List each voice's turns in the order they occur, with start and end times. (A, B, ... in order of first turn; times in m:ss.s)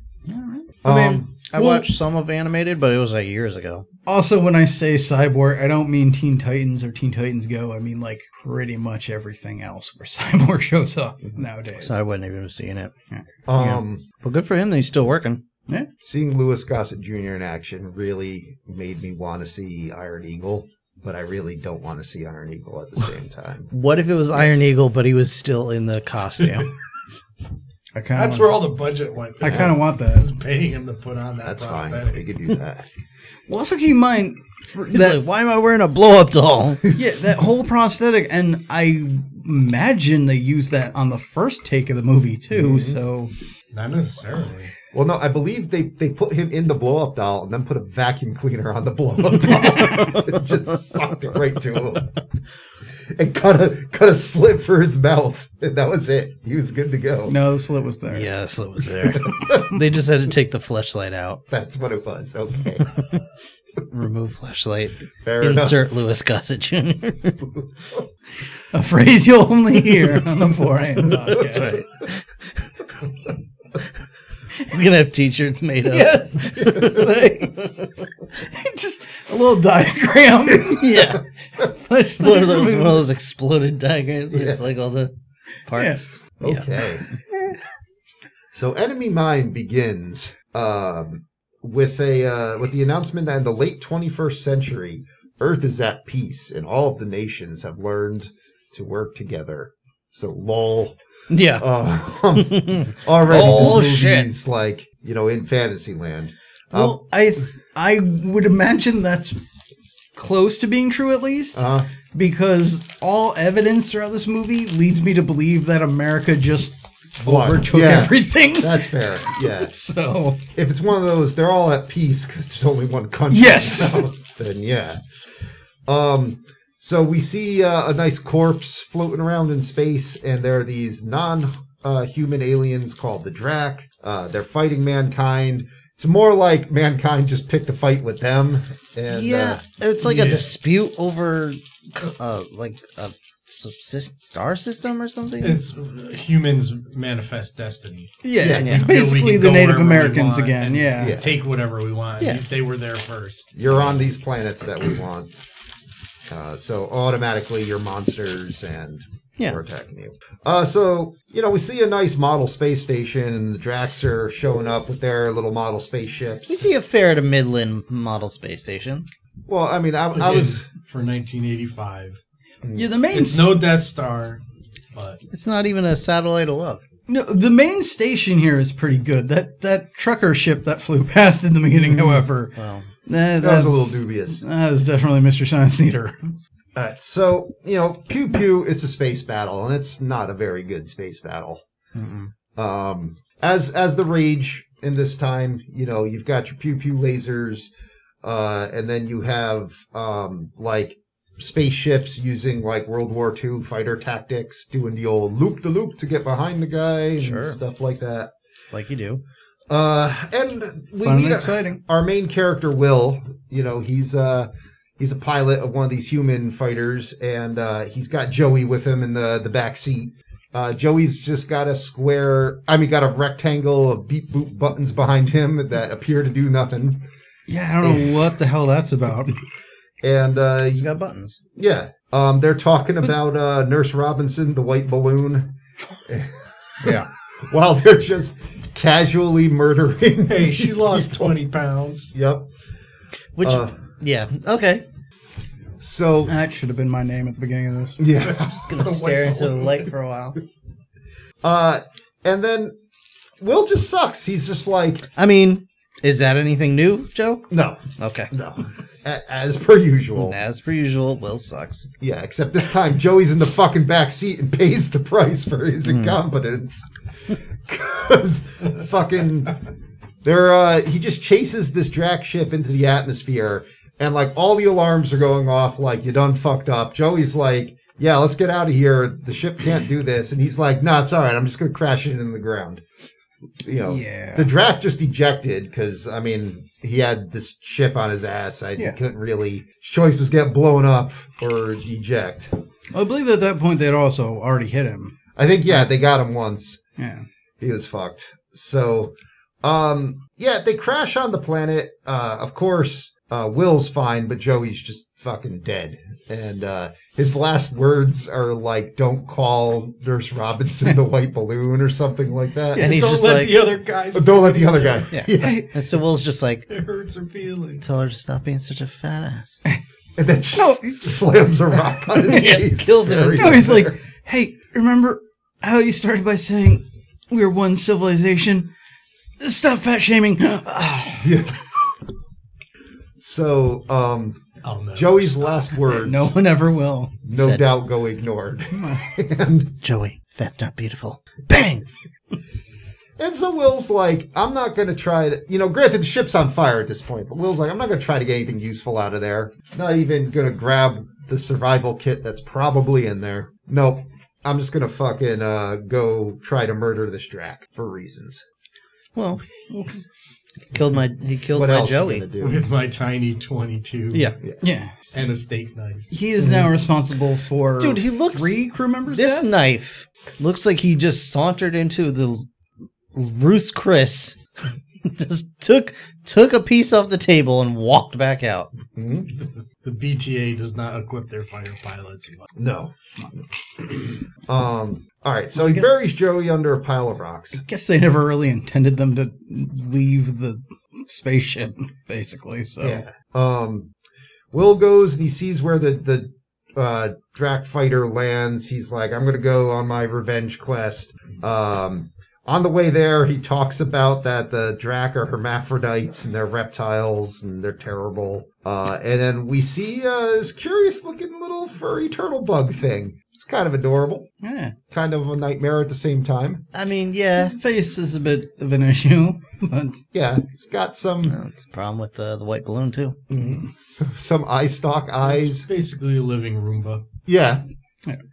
0:00.2-0:00.7 A
0:00.8-0:01.4 B
0:00.8-0:03.8 C
0:01.5-0:01.9 A
0:04.0-0:12.0 A
0:11.8-0:12.9 C
0:13.5-0:14.0 B
0:13.5-0:15.4 C
0:16.0-0:23.7 B
0:23.7-0:26.7 C
0:26.4-0:26.7 D
0:27.9-0:28.7 A
0:28.1-0:32.3 D
0:29.4-0:30.3 A
0:31.4-0:32.9 B
0:33.5-0:35.2 A
0:34.9-0:36.8 C
0:36.9-0:43.3 A
0:42.5-0:43.0 B
0:43.7-0:44.7 D
0:44.9-0:52.1 B
0:53.1-0:57.4 B
0:57.2-0:58.3 A
0:58.1-1:01.4 C
0:59.0-0:59.7 B
1:01.5-1:03.0 B
1:03.9-1:07.5 C
1:05.2-1:05.8 B
1:08.7-1:11.8 A
1:11.0-1:12.7 C
1:11.3-1:11.7 B
1:14.6-1:18.2 C
1:15.8-1:17.0 A
1:16.5-1:17.1 B
1:18.3-1:21.0 A
1:20.6-1:25.1 C
1:21.6-1:23.0 A
1:24.3-1:24.6 B
1:25.7-1:26.7 C
1:25.7-1:26.1 A
1:26.4-1:27.1 B
1:28.5-1:41.0 B
1:41.3-1:41.7 C
1:41.5-1:47.0 B
1:42.3-1:44.3 C
1:43.3-1:43.8 A
1:46.7-1:49.4 A
1:50.2-2:00.4 A
1:51.5-1:51.9 B
1:57.2-1:59.7 B
2:00.5-2:05.0 B
2:03.3-2:04.0 A
2:05.9-2:19.6 B
2:19.1-2:25.6 C
2:20.0-2:20.5 D
2:25.4-2:33.5 D
2:28.2-2:31.2 A
2:28.4-2:28.9 B
2:28.5-2:28.9 C
2:31.0-2:31.3 B
2:33.5-2:35.3 B
2:33.7-2:33.9 C
2:36.3-2:46.7 B
2:46.5-2:49.1 C
2:49.5-2:50.6 B
2:50.1-2:52.2 D
2:52.6-2:52.9 B
2:52.7-2:53.6 A
2:53.1-2:54.4 D
2:54.9-2:55.2 D
2:55.3-2:56.8 C
2:57.1-3:02.5 A
3:02.5-3:02.9 C
3:03.0-3:06.3 A
3:03.4-3:04.4 B
3:06.7-3:11.6 B
3:11.9-3:12.3 C
3:12.5-3:17.7 B
3:18.2-3:28.3 B
3:27.2-3:27.6 C
3:28.7-3:29.2 C
3:29.7-3:47.0 B
3:31.0-3:31.8 A
3:47.5-3:49.4 A
3:50.0-3:50.9 B
3:50.7-3:51.4 C
3:51.6-3:55.5 B
3:56.0-3:57.0 B
3:57.5-4:01.3 B
4:00.2-4:02.1 D
4:02.1-4:02.5 B
4:03.4-4:04.8 C
4:03.4-4:03.8 B
4:05.8-4:06.3 B
4:06.2-4:08.0 A
4:08.0-4:08.6 B
4:08.2-4:09.9 D
4:08.3-4:10.4 C
4:11.4-4:12.7 B
4:13.4-4:15.1 B
4:15.2-4:18.3 C
4:17.5-4:20.4 B
4:20.1-4:21.9 C
4:22.0-4:29.6 B
4:25.8-4:26.2 C
4:30.2-4:42.8 B
4:43.6-4:52.5 B
4:43.8-4:44.5 A
4:52.9-4:55.1 A
4:55.4-4:56.8 B
4:57.0-4:57.2 A
4:57.6-5:12.9 B
5:12.7-5:13.7 C
5:12.7-5:15.1 D
5:14.1-5:15.6 B
5:15.1-5:16.7 C
5:15.4-5:15.7 A
5:16.7-5:17.9 D
5:17.8-5:19.6 C
5:20.2-5:23.9 B
5:20.5-5:21.2 A
5:22.2-5:23.8 C
5:23.3-5:28.7 A
5:29.4-5:31.5 A
5:31.2-5:31.6 B
5:33.2-5:34.4 B
5:34.6-5:35.8 D
5:34.9-5:36.4 B
5:35.9-5:37.2 A
5:37.2-5:39.7 B
5:37.3-5:37.7 C
5:38.7-5:39.0 A
5:39.8-5:41.9 C
5:43.2-5:58.4 B
5:59.1-6:00.0 C
6:00.7-6:02.3 C
6:01.5-6:02.6 B
6:02.4-6:04.4 D
6:04.6-6:04.9 A
6:05.1-6:06.1 D
6:06.1-6:09.5 A
6:06.4-6:06.7 B
6:07.8-6:08.5 C
6:09.1-6:12.4 C
6:13.1-6:14.4 C
6:15.0-6:18.7 C
6:19.0-6:19.3 B
6:19.8-6:22.5 D
6:22.6-6:23.4 B
6:24.5-6:27.6 B
6:25.5-6:25.9 A
6:27.5-6:33.0 A
6:32.8-6:33.9 B
6:34.5-6:54.3 B
6:54.4-6:54.7 A
6:54.9-6:56.6 B
6:56.7-6:57.6 C
6:57.4-7:00.0 A
7:00.1-7:01.4 B
7:01.2-7:03.2 C
7:03.3-7:05.7 B
7:05.2-7:07.0 D
7:07.2-7:07.6 B